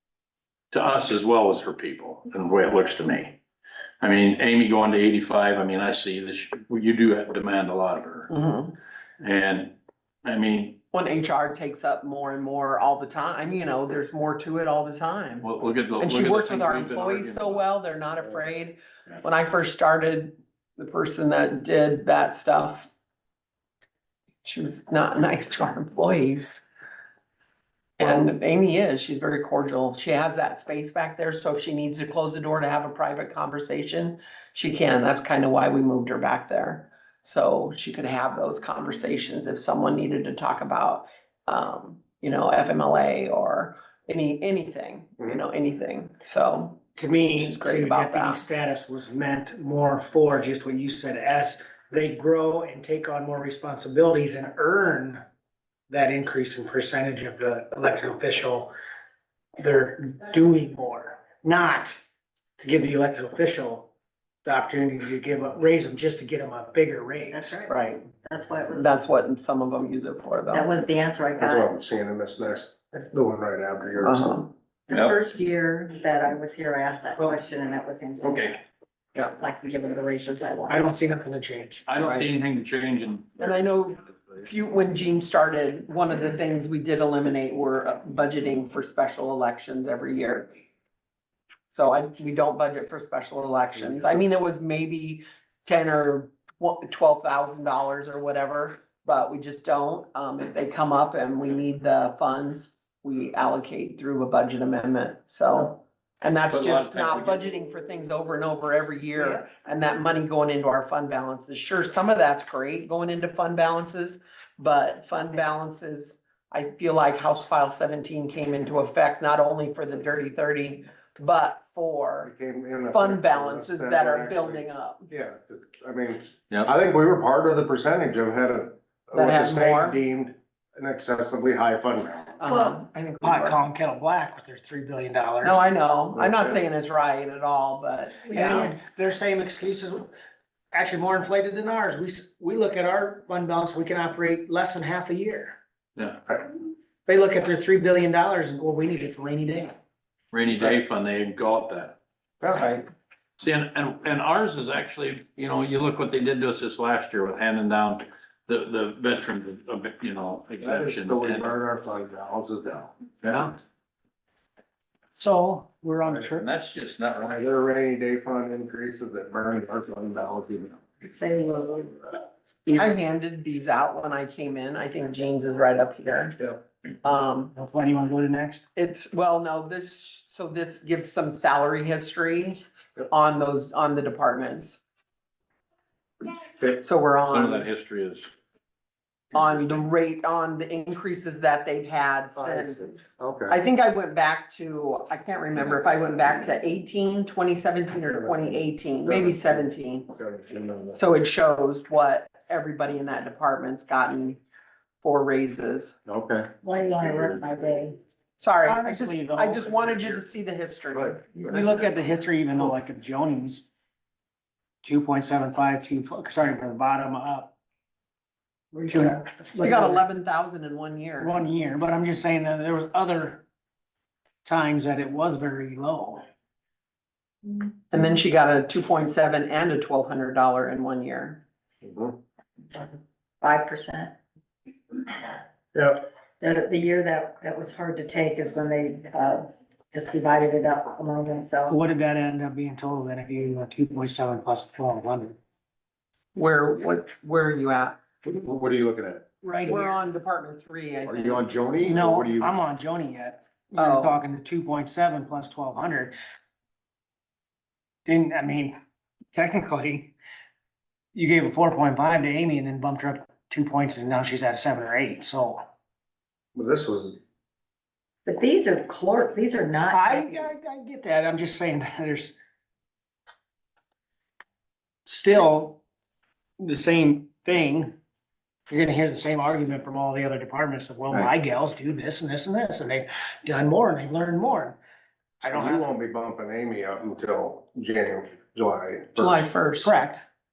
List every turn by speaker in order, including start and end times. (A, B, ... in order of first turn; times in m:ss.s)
0:00.7-0:03.4 A
0:04.0-0:08.3 A
0:08.3-0:08.8 B
0:09.2-0:10.8 A
0:10.9-0:22.9 B
0:15.4-0:17.6 A
0:24.4-0:26.6 B
0:28.0-0:46.8 B
0:46.9-0:55.2 C
0:47.4-0:48.4 B
0:55.9-0:58.7 C
0:59.6-1:02.0 C
1:02.6-1:03.9 C
1:04.4-1:07.7 C
1:07.3-1:09.0 D
1:07.7-1:08.0 B
1:08.7-1:10.7 B
1:10.5-1:11.7 D
1:11.4-1:14.3 E
1:14.0-1:14.5 B
1:14.9-1:18.6 D
1:14.9-1:15.2 A
1:18.2-1:18.6 A
1:19.2-1:20.9 D
1:20.7-1:22.0 C
1:21.9-1:23.6 A
1:23.4-1:30.5 B
1:31.7-2:02.3 B
1:46.5-1:47.6 A
2:02.2-2:12.3 E
2:02.9-2:05.1 B
2:09.1-2:10.0 B
2:12.4-2:13.6 B
2:12.5-2:15.7 C
2:15.4-2:18.7 B
2:16.2-2:16.6 E
2:18.2-2:20.1 C
2:20.7-2:25.6 C
2:26.0-2:26.2 A
2:27.0-2:29.8 C
2:30.3-2:32.0 A
2:32.4-2:32.8 E
2:33.4-2:41.6 A
2:40.6-2:42.9 E
2:43.2-2:43.5 A
2:45.2-2:46.5 C
2:46.0-2:46.3 E
2:46.3-2:47.4 A
2:47.3-2:50.8 E
2:51.0-2:52.0 D
2:52.7-2:57.5 B
2:57.5-2:58.7 C
2:58.7-3:04.8 B
3:06.6-3:07.7 B
3:07.3-3:08.3 A
3:09.3-3:12.9 B
3:12.4-3:13.6 E
3:13.5-3:20.1 B
3:18.2-3:21.0 E
3:20.9-3:24.4 B
3:25.0-3:26.0 B
3:26.0-3:26.5 E
3:26.6-3:28.0 D
3:27.0-3:27.4 E
3:28.4-3:31.7 B
3:28.6-3:30.2 C
3:31.4-3:33.7 C
3:34.8-3:37.5 C
3:38.9-3:40.0 C
3:39.6-3:41.3 B
3:41.2-3:43.4 C
3:44.4-3:46.2 C
3:47.9-3:51.4 B
3:51.8-3:52.2 E
3:53.4-3:54.1 D
3:55.7-3:56.0 E
3:56.4-4:01.8 D
4:01.7-4:05.4 C
4:06.3-4:08.0 B
4:08.2-4:09.2 E
4:09.4-4:10.0 C
4:09.6-4:11.5 B
4:11.0-4:12.5 E
4:11.8-4:16.1 C
4:13.8-4:14.2 B
4:18.0-4:18.8 C
4:19.3-4:20.1 C
4:21.1-4:25.6 C
4:26.5-4:27.2 E
4:28.2-4:30.5 D
4:29.9-4:32.4 C
4:35.0-4:35.8 C
4:36.6-4:38.0 C
4:38.7-4:44.8 C
4:45.4-4:45.9 C
4:45.5-4:49.4 E
4:49.2-4:50.0 B
4:49.8-4:50.2 C